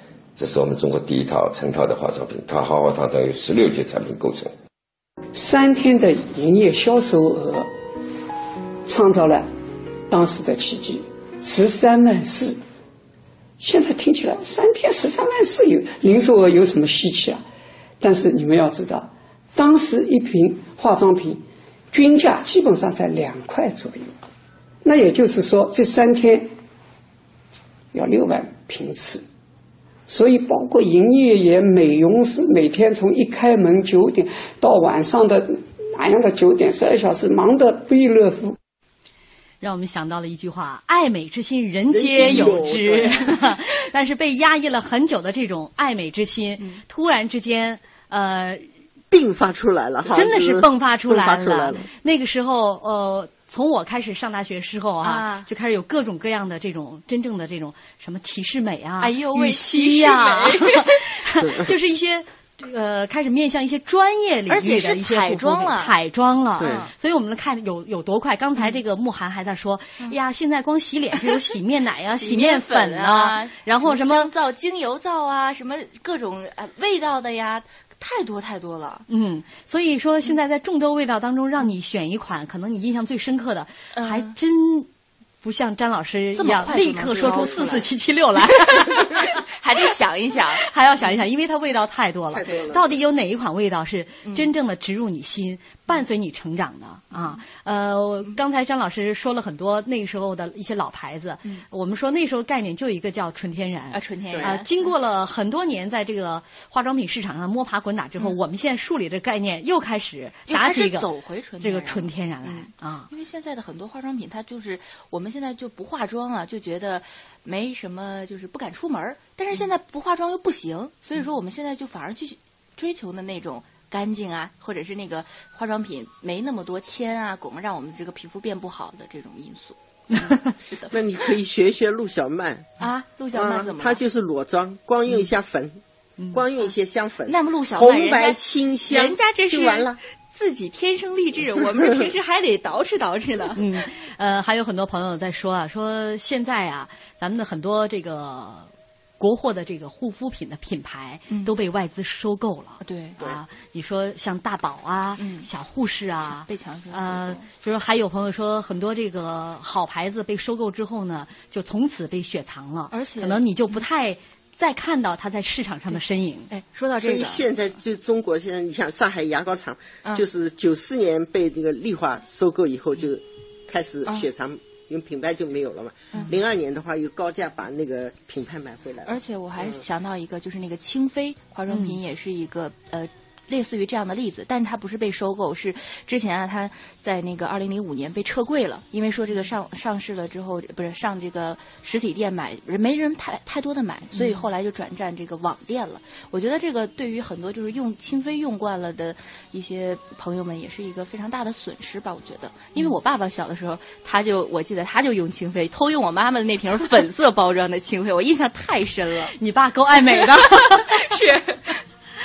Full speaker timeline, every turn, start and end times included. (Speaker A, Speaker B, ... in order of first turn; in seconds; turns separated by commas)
Speaker A: 0.4-4.5, Speaker B: 5.3-7.7, Speaker B: 8.9-9.5, Speaker B: 10.1-12.6, Speaker B: 13.6-17.4, Speaker B: 18.0-24.2, Speaker B: 24.8-26.5, Speaker B: 27.9-29.2, Speaker B: 30.1-38.6, Speaker C: 39.6-48.6, Speaker D: 41.9-43.3, Speaker D: 49.1-51.9, Speaker C: 50.1-74.3, Speaker E: 55.0-55.5, Speaker E: 59.0-61.0, Speaker E: 64.5-65.9, Speaker D: 66.6-66.9, Speaker E: 66.6-66.9, Speaker E: 72.1-79.1, Speaker C: 79.1-84.9, Speaker E: 84.0-84.3, Speaker C: 85.4-89.3, Speaker E: 86.4-87.9, Speaker D: 87.3-87.5, Speaker E: 88.6-90.7, Speaker C: 90.5-111.1, Speaker D: 92.3-93.0, Speaker E: 94.3-94.5, Speaker E: 97.1-97.4, Speaker E: 103.9-104.8, Speaker D: 104.3-104.6, Speaker E: 110.5-130.9, Speaker C: 111.6-113.1, Speaker C: 130.1-130.5, Speaker D: 130.9-132.8, Speaker E: 132.8-134.0, Speaker D: 133.3-135.8, Speaker D: 136.3-140.0, Speaker E: 137.3-143.6, Speaker C: 143.6-166.5, Speaker E: 152.8-153.2, Speaker E: 155.2-155.5, Speaker E: 156.2-157.4, Speaker E: 162.9-163.8, Speaker E: 166.5-167.5, Speaker D: 167.0-179.8, Speaker E: 179.1-209.3, Speaker C: 181.7-182.0, Speaker C: 194.2-194.4, Speaker C: 209.4-211.0, Speaker E: 210.1-211.8